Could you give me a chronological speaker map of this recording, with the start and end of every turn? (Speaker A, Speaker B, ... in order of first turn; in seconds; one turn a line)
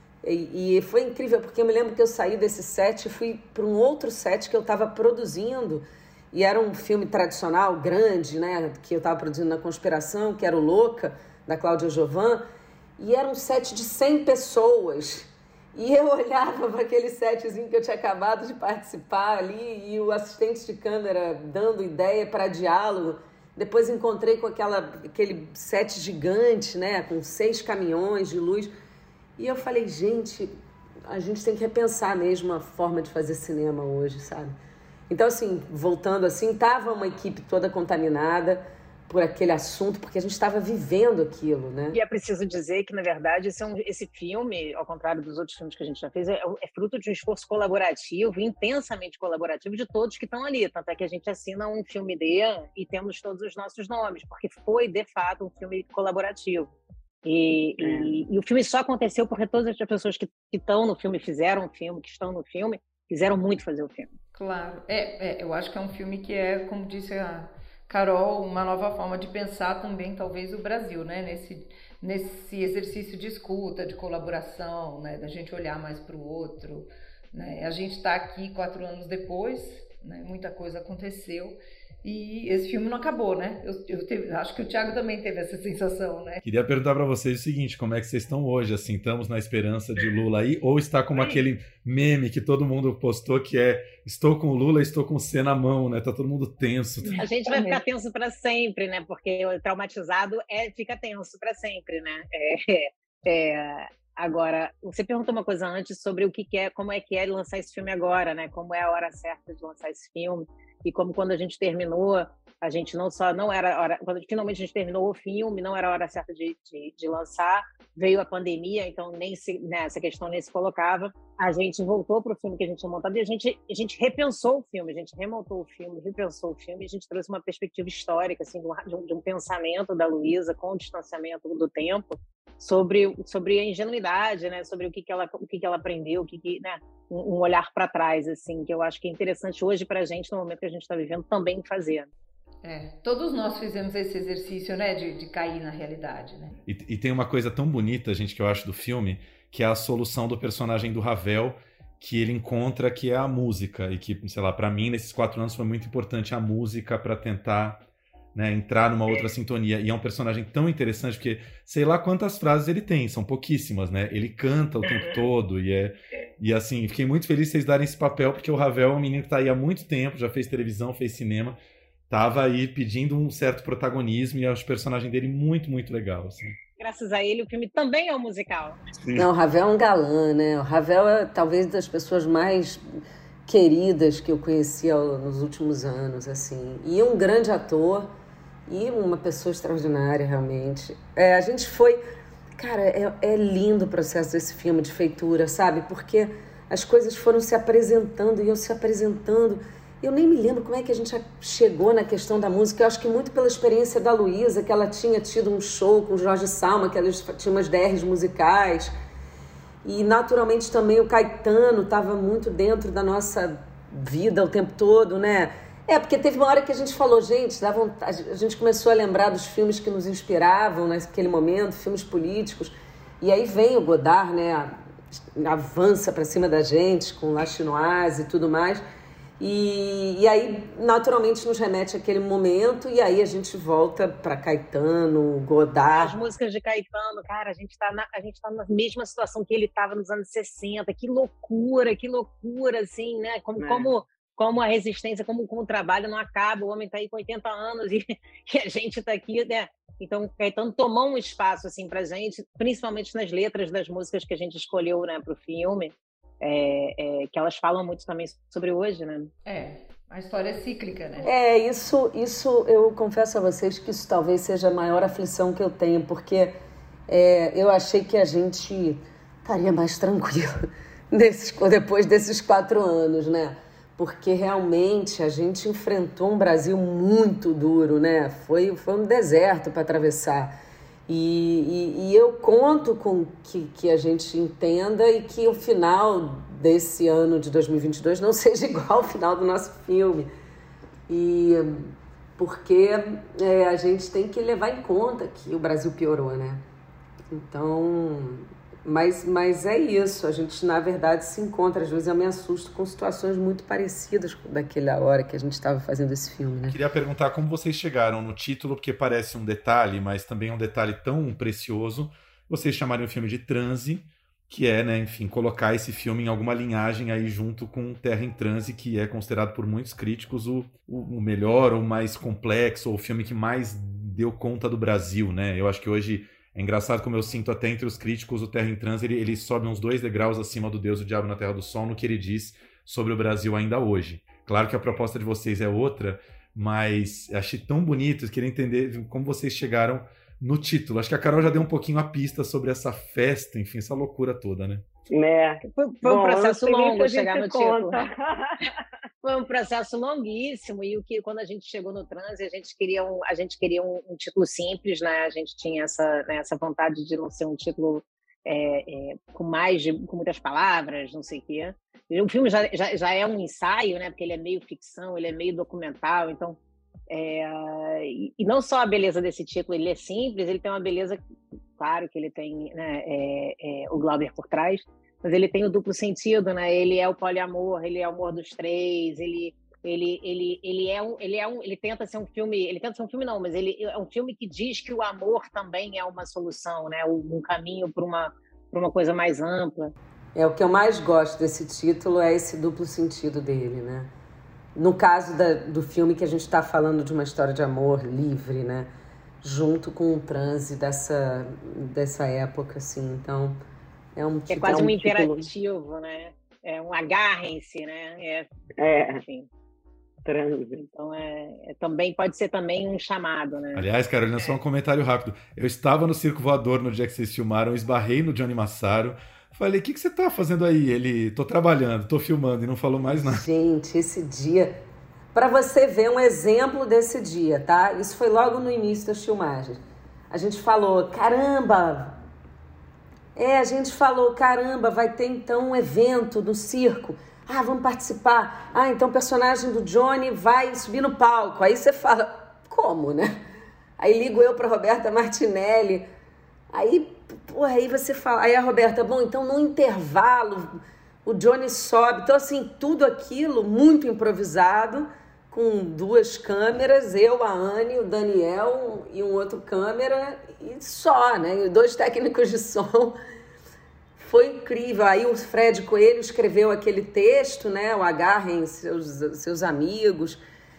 Speaker A: 0.2-12.4
Speaker A: 13.0-28.7
Speaker A: 29.4-30.5
Speaker A: 31.1-34.5
Speaker A: 35.1-42.0
Speaker B: 41.9-56.7
Speaker B: 57.2-64.2
Speaker C: 57.8-58.2
Speaker D: 64.3-86.4
Speaker E: 86.4-97.2
Speaker D: 97.0-97.8
Speaker B: 97.1-142.1
Speaker D: 142.6-146.5
Speaker E: 146.7-157.8
Speaker E: 158.3-171.6
Speaker E: 172.1-176.6
Speaker B: 176.8-178.8
Speaker E: 179.0-179.3
Speaker A: 179.2-182.8
Speaker A: 183.5-188.1
Speaker A: 188.7-192.0
Speaker A: 192.6-208.9
Speaker A: 209.8-224.8
Speaker A: 225.4-228.8
Speaker A: 229.4-236.1
Speaker B: 235.9-259.3
Speaker C: 243.6-243.9
Speaker D: 259.4-261.3
Speaker A: 261.2-266.6
Speaker A: 267.1-270.6
Speaker A: 271.1-280.6
Speaker A: 281.1-290.3
Speaker A: 291.1-296.6
Speaker A: 297.3-306.8
Speaker E: 306.7-344.8
Speaker C: 345.1-348.7
Speaker B: 345.6-348.1
Speaker B: 349.2-366.6
Speaker B: 367.1-371.2
Speaker B: 371.8-389.9
Speaker A: 390.3-394.1
Speaker A: 394.7-398.9
Speaker A: 399.4-403.6
Speaker A: 404.1-404.9
Speaker B: 404.5-408.5
Speaker C: 404.5-405.5
Speaker C: 408.8-409.2
Speaker B: 409.1-409.5
Speaker C: 410.2-410.8
Speaker B: 410.8-414.6
Speaker E: 413.7-423.4
Speaker A: 423.3-424.8
Speaker A: 425.3-429.8
Speaker A: 430.3-432.1
Speaker A: 433.4-443.4
Speaker A: 444.0-446.1
Speaker A: 446.7-463.2
Speaker A: 464.2-470.4